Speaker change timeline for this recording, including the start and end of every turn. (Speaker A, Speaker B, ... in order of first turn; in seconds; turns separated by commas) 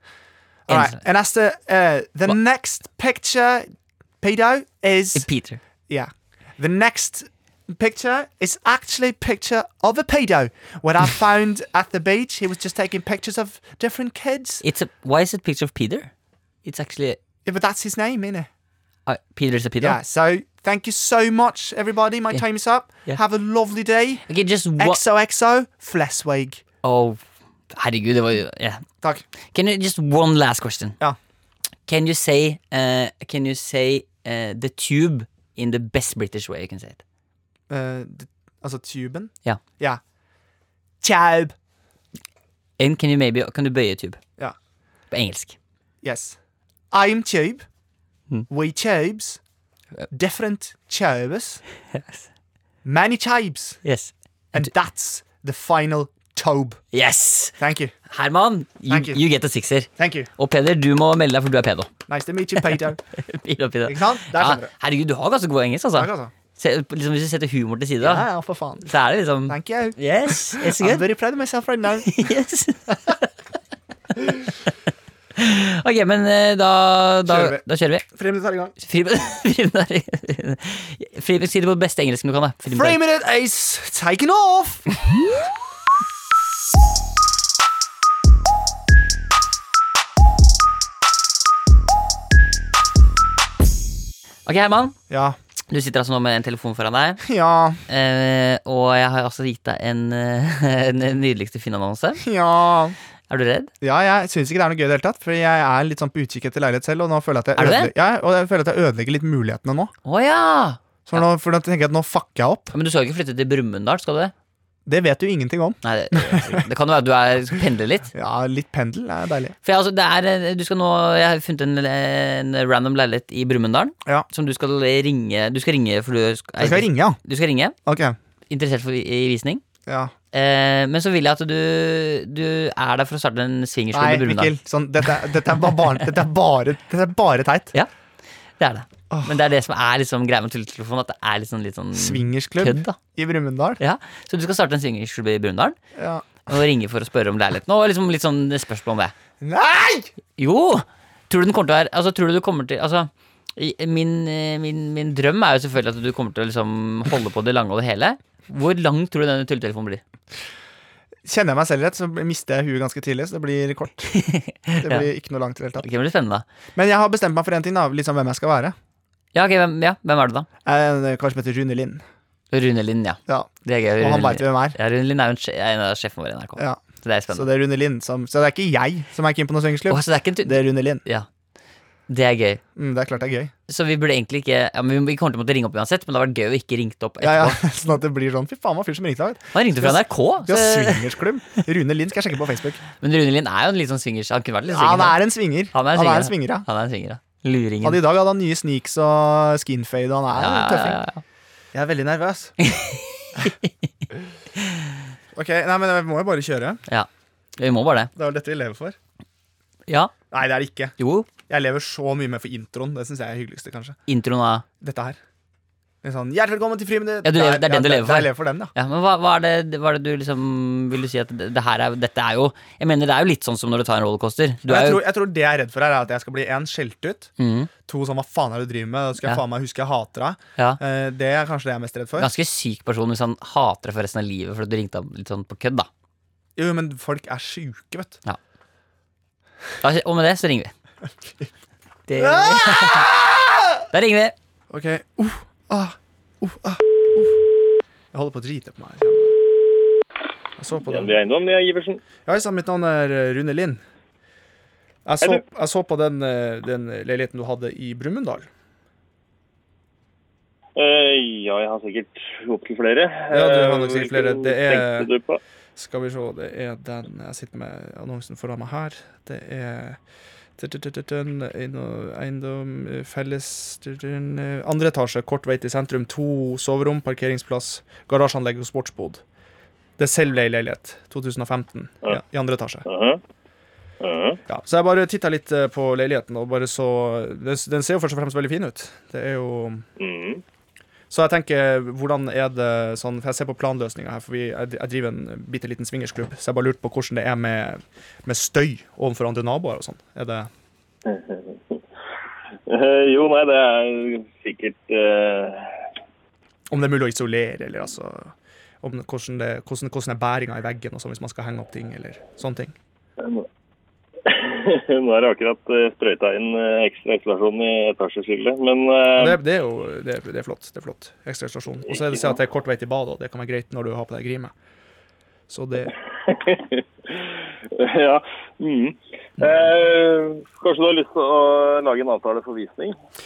Speaker A: 0.7-5.3, Speaker B: 0.7-1.0, Speaker B: 5.2-5.6, Speaker A: 5.9-14.6, Speaker B: 14.6-16.1, Speaker B: 16.6-17.2, Speaker A: 17.4-18.5, Speaker B: 19.1-20.0, Speaker A: 19.8-24.3, Speaker B: 24.3-25.0, Speaker A: 24.8-26.6, Speaker B: 26.8-28.9, Speaker B: 29.5-31.0, Speaker B: 31.9-37.0, Speaker A: 37.7-40.0, Speaker A: 41.0-41.5, Speaker B: 42.8-44.2, Speaker B: 45.1-45.6, Speaker A: 46.0-46.4, Speaker A: 46.9-47.6, Speaker A: 48.5-49.4, Speaker A: 50.1-51.6, Speaker B: 51.9-52.3, Speaker A: 52.8-53.8, Speaker B: 53.8-54.1, Speaker A: 54.5-56.8, Speaker B: 56.9-57.6, Speaker A: 57.6-57.9, Speaker B: 58.1-61.9, Speaker A: 58.9-59.2, Speaker A: 60.0-60.3, Speaker A: 62.1-63.0, Speaker B: 63.2-68.3, Speaker A: 63.9-64.7, Speaker A: 66.0-66.3, Speaker A: 68.0-68.9, Speaker B: 68.8-71.0, Speaker A: 69.5-72.3, Speaker B: 72.1-73.2, Speaker B: 75.4-78.0, Speaker A: 77.3-78.7, Speaker B: 78.8-83.0, Speaker A: 82.7-84.9, Speaker B: 94.5-95.0, Speaker A: 95.1-95.4, Speaker B: 95.7-97.2, Speaker A: 97.2-97.8, Speaker B: 97.9-102.2, Speaker A: 102.2-103.0, Speaker B: 103.3-103.7, Speaker A: 103.8-109.9, Speaker B: 107.6-107.9, Speaker B: 110.0-111.2, Speaker A: 111.1-112.7, Speaker B: 112.7-114.3, Speaker A: 114.9-116.6, Speaker B: 115.8-118.1, Speaker A: 118.1-119.5, Speaker B: 119.6-127.8, Speaker A: 126.6-127.2, Speaker A: 127.9-128.2, Speaker B: 128.5-129.6, Speaker A: 129.9-130.1, Speaker B: 130.3-134.6, Speaker A: 133.9-137.8, Speaker B: 138.6-143.0, Speaker A: 139.1-139.3, Speaker A: 141.9-143.8, Speaker B: 143.8-145.8, Speaker A: 146.0-146.5, Speaker B: 146.5-149.1, Speaker A: 149.4-150.1, Speaker B: 150.4-160.0, Speaker A: 161.2-164.1, Speaker B: 164.1-165.1, Speaker A: 164.8-165.9, Speaker B: 165.8-166.4, Speaker A: 166.8-168.8, Speaker B: 169.3-170.5, Speaker A: 170.7-172.0, Speaker B: 172.5-177.5, Speaker A: 173.3-174.8, Speaker A: 177.3-181.0, Speaker B: 179.9-181.3, Speaker B: 182.1-182.6, Speaker A: 182.8-183.5, Speaker B: 183.7-187.6, Speaker A: 187.2-192.8, Speaker B: 189.5-191.1, Speaker B: 193.0-195.2, Speaker A: 194.7-196.7, Speaker B: 195.7-198.0, Speaker A: 197.8-201.0, Speaker B: 200.3-201.2, Speaker A: 201.7-202.6, Speaker B: 202.6-203.7, Speaker A: 205.3-206.8, Speaker B: 206.9-208.1, Speaker A: 208.2-209.0, Speaker B: 209.9-210.1, Speaker A: 210.3-210.9, Speaker B: 211.0-211.3, Speaker A: 211.5-214.0, Speaker B: 214.1-214.7, Speaker A: 214.8-215.2, Speaker A: 216.0-218.7, Speaker B: 217.2-225.0, Speaker A: 224.7-227.3, Speaker B: 227.4-227.7, Speaker A: 227.9-232.3, Speaker B: 232.2-235.9, Speaker A: 236.6-238.2, Speaker B: 239.8-240.7, Speaker B: 242.1-243.1, Speaker A: 242.2-243.8, Speaker B: 243.9-244.3, Speaker A: 244.7-247.4, Speaker A: 248.1-249.4, Speaker A: 250.6-251.2, Speaker C: 250.8-252.0, Speaker A: 252.3-253.8, Speaker A: 255.1-258.5, Speaker C: 260.8-265.4, Speaker A: 263.3-265.1, Speaker A: 265.8-270.0, Speaker A: 270.6-279.2, Speaker A: 280.0-282.9, Speaker C: 282.9-283.2, Speaker C: 284.0-284.4, Speaker A: 284.5-289.9, Speaker C: 290.0-290.4, Speaker A: 291.1-300.5, Speaker C: 301.1-301.8, Speaker C: 302.7-305.7, Speaker A: 306.7-312.8, Speaker C: 313.2-313.5, Speaker C: 314.3-319.4, Speaker A: 319.1-324.5, Speaker C: 321.9-322.3, Speaker A: 325.5-325.9, Speaker C: 326.3-332.9